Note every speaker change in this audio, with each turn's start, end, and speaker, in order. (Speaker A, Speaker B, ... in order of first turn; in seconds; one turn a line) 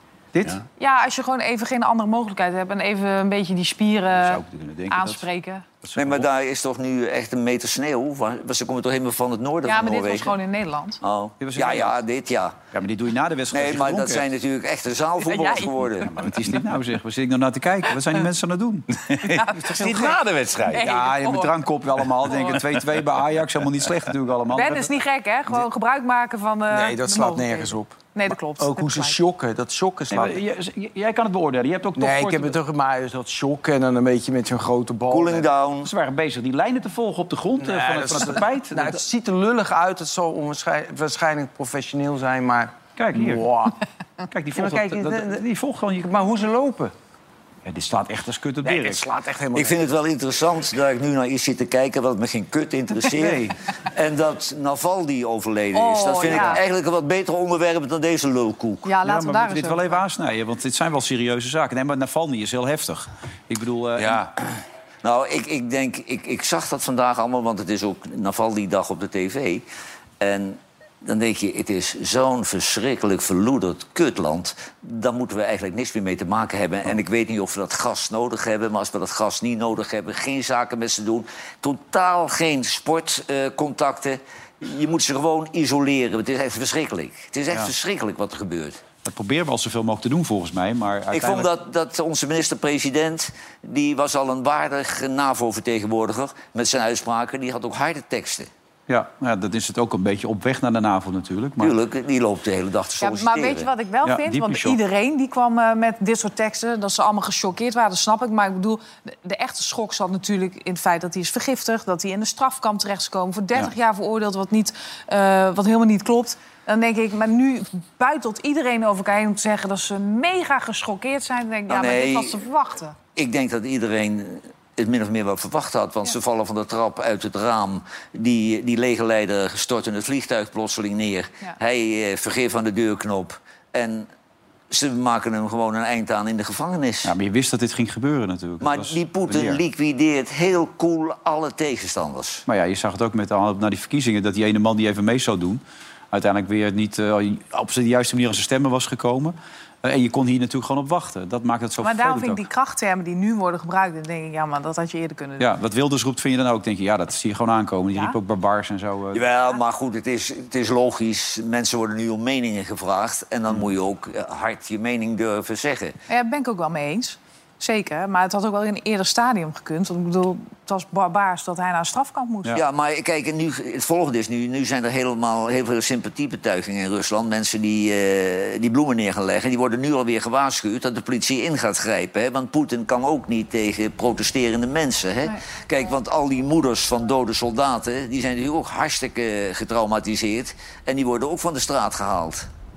Speaker A: 0.3-0.6
Speaker B: 0.8-5.6
Speaker A: 4.1-5.2
Speaker A: 5.8-6.3
Speaker C: 6.0-10.3
Speaker B: 9.6-11.0
Speaker C: 11.0-12.6
Speaker A: 11.4-12.0
Speaker A: 12.7-14.3
Speaker C: 13.5-16.1
Speaker B: 15.2-15.7
Speaker A: 16.0-20.1
Speaker D: 19.0-20.8
Speaker B: 19.3-20.1
Speaker B: 20.7-21.6
Speaker A: 20.8-24.9
Speaker B: 22.3-22.6
Speaker B: 24.5-29.1
Speaker E: 26.7-28.0
Speaker E: 28.6-30.4
Speaker A: 30.1-32.6
Speaker E: 32.0-35.5
Speaker C: 35.1-35.9
Speaker A: 35.8-39.0
Speaker E: 37.6-43.8
Speaker A: 43.0-43.5
Speaker A: 44.3-46.1
Speaker E: 44.5-45.4
Speaker E: 45.9-46.9
Speaker A: 47.6-49.1
Speaker E: 48.6-49.8
Speaker C: 49.5-58.9
Speaker A: 53.1-53.5
Speaker B: 55.7-56.6
Speaker B: 58.8-60.0
Speaker A: 59.0-64.2
Speaker D: 64.0-64.3
Speaker C: 65.0-69.6
Speaker C: 70.2-88.8
Speaker A: 89.0-91.5
Speaker C: 91.1-98.5
Speaker A: 98.9-101.8
Speaker C: 101.6-103.7
Speaker B: 103.0-122.9
Speaker A: 104.0-104.8
Speaker C: 121.7-122.4
Speaker C: 123.1-134.1
Speaker C: 134.7-137.1
Speaker A: 137.0-139.6
Speaker C: 138.6-142.4
Speaker A: 142.4-145.6
Speaker A: 146.1-152.4
Speaker B: 151.8-155.5
Speaker A: 155.4-159.2
Speaker C: 159.1-165.9
Speaker B: 166.1-172.6
Speaker C: 172.5-192.5